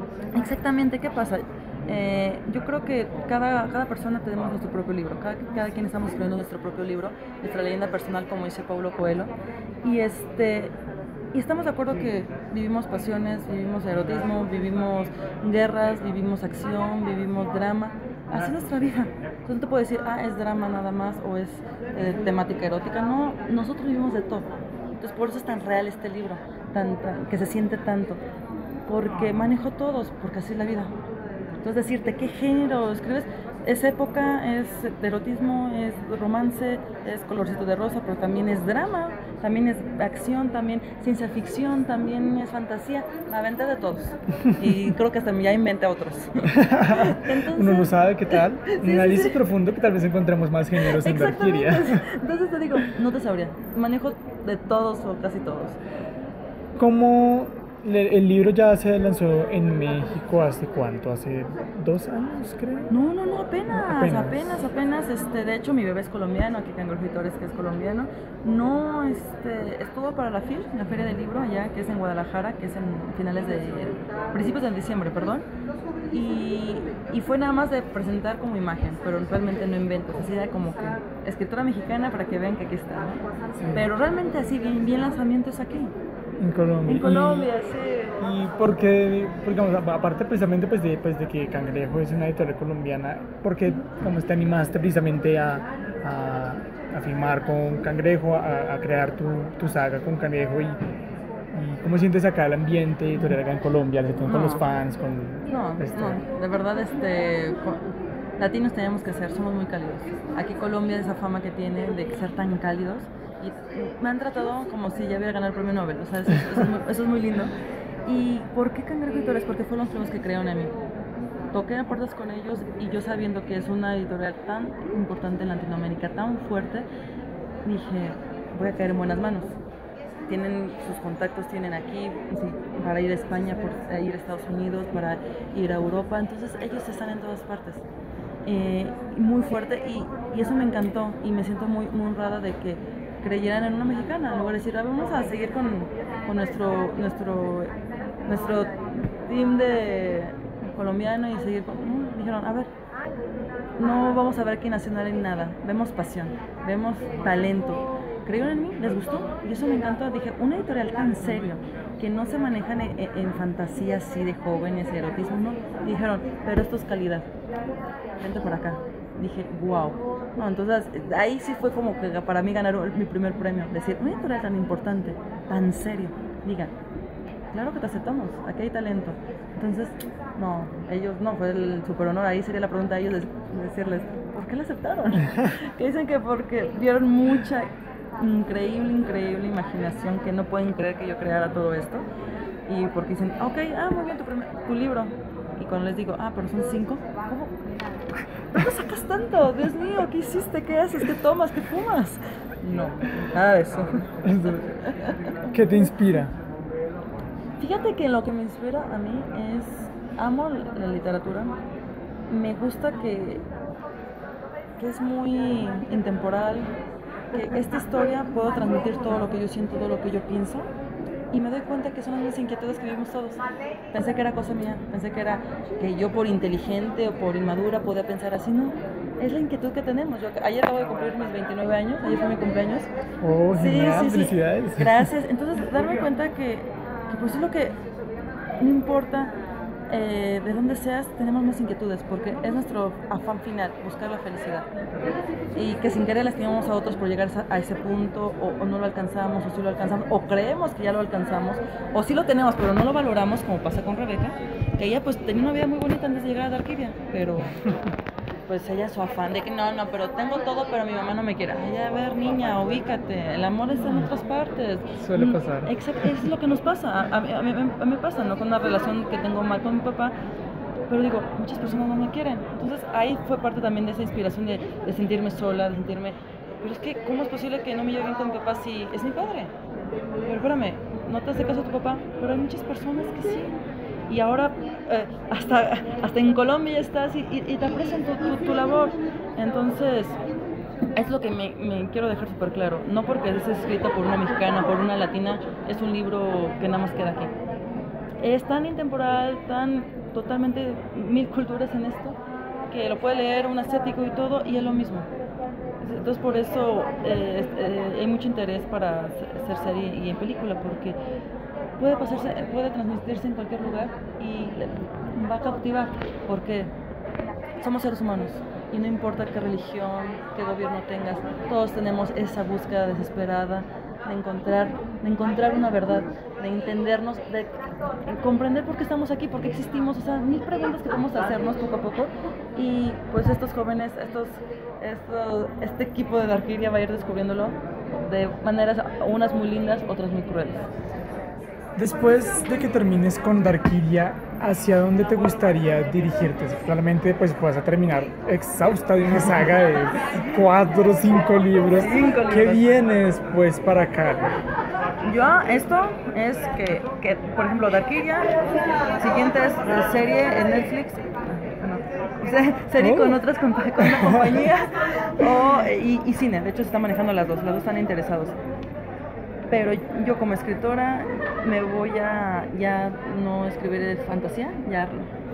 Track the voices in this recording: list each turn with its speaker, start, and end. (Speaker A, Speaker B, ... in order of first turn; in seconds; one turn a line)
Speaker A: 0.3-9.3
Speaker A: 9.8-10.7
Speaker A: 11.3-24.5
Speaker A: 25.0-28.2
Speaker A: 28.9-30.9
Speaker A: 31.6-49.4
Speaker B: 46.5-52.0
Speaker A: 50.9-55.8
Speaker B: 56.8-62.9
Speaker A: 62.9-75.5
Speaker B: 63.7-64.6
Speaker A: 76.1-83.2
Speaker B: 83.6-83.9
Speaker A: 83.7-85.9
Speaker B: 86.4-87.5
Speaker A: 86.8-88.2
Speaker B: 88.2-100.8
Speaker B: 101.5-106.2
Speaker A: 104.2-104.6
Speaker A: 105.5-117.5
Speaker A: 118.0-120.7
Speaker A: 121.5-126.8
Speaker A: 127.6-129.5
Speaker A: 130.3-137.8
Speaker A: 138.4-147.7
Speaker A: 148.2-152.7
Speaker A: 153.8-167.3
Speaker A: 168.2-176.7
Speaker A: 177.5-192.0
Speaker A: 192.7-197.5
Speaker A: 198.5-204.1
Speaker B: 204.2-204.7
Speaker A: 204.6-205.3
Speaker B: 205.5-206.3
Speaker A: 207.6-211.5
Speaker A: 212.3-213.4
Speaker A: 214.8-216.7
Speaker A: 217.3-220.7
Speaker A: 221.3-223.4
Speaker A: 223.9-232.9
Speaker B: 233.2-235.1
Speaker A: 233.5-237.8
Speaker A: 238.6-239.3
Speaker A: 239.9-244.7
Speaker A: 245.5-257.5
Speaker B: 257.6-257.9
Speaker A: 258.5-270.1
Speaker B: 265.0-266.1
Speaker A: 270.9-279.5
Speaker A: 280.3-283.5
Speaker A: 284.1-290.2
Speaker A: 290.9-297.3
Speaker A: 298.2-302.2
Speaker A: 302.7-305.1
Speaker A: 305.8-311.0
Speaker A: 311.8-316.7
Speaker A: 317.6-340.7
Speaker B: 341.8-354.3
Speaker A: 351.7-352.7
Speaker A: 355.0-358.3
Speaker A: 359.0-368.3
Speaker B: 362.8-363.2
Speaker B: 363.8-364.6
Speaker A: 369.5-375.1